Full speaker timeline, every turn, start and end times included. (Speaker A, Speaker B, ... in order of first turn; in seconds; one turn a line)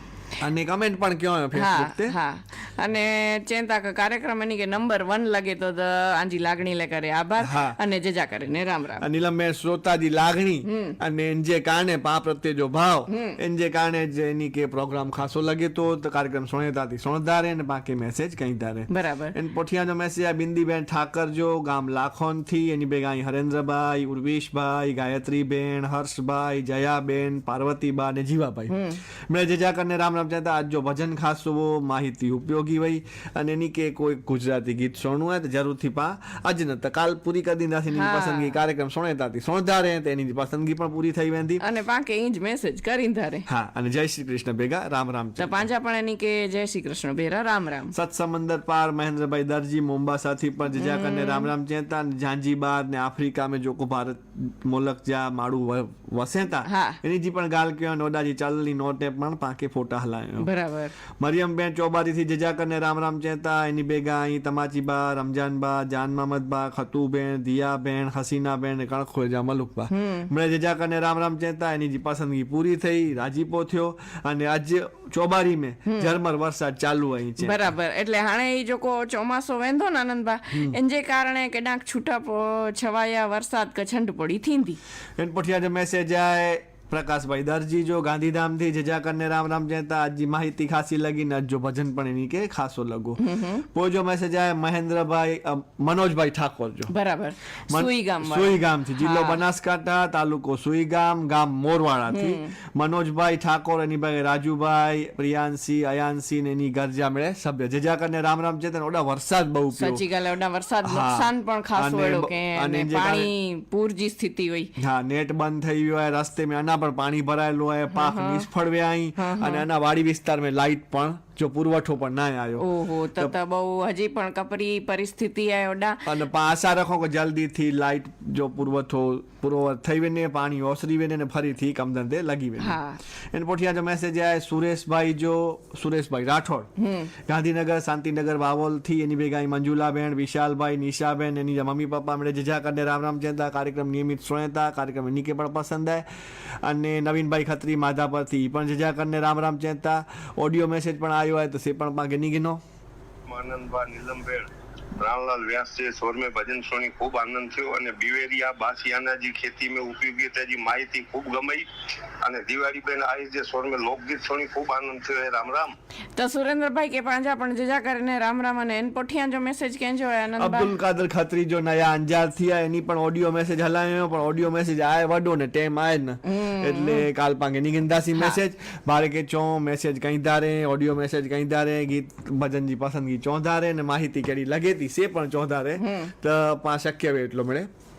Speaker A: 0.4-2.1
Speaker B: 1.5-9.1
Speaker A: 7.4-7.8
Speaker A: 9.0-28.7
Speaker B: 10.6-10.9
Speaker B: 13.1-13.4
Speaker B: 18.9-19.3
Speaker B: 28.7-29.0
Speaker A: 29.3-41.6
Speaker B: 37.9-38.6
Speaker B: 41.6-43.5
Speaker A: 43.5-45.6
Speaker B: 45.4-47.9
Speaker A: 47.9-60.5
Speaker B: 50.7-51.5
Speaker B: 56.6-57.0
Speaker B: 60.4-60.9
Speaker A: 61.2-77.7
Speaker B: 69.9-70.3
Speaker B: 75.9-76.1
Speaker B: 77.4-84.8
Speaker A: 85.2-96.9
Speaker B: 93.2-93.6
Speaker B: 96.9-99.4
Speaker A: 97.7-110.0
Speaker B: 102.1-102.5
Speaker B: 109.7-114.7
Speaker A: 110.8-113.3
Speaker A: 114.8-123.3
Speaker B: 117.9-118.5
Speaker B: 119.2-119.7
Speaker B: 122.6-126.1
Speaker A: 126.0-132.8
Speaker B: 132.6-133.0
Speaker A: 133.3-136.7
Speaker B: 136.8-137.1
Speaker A: 137.3-146.1
Speaker A: 146.6-152.6
Speaker C: 153.3-165.7
Speaker B: 166.2-170.7
Speaker A: 170.4-187.7
Speaker B: 176.2-177.1
Speaker B: 185.8-186.1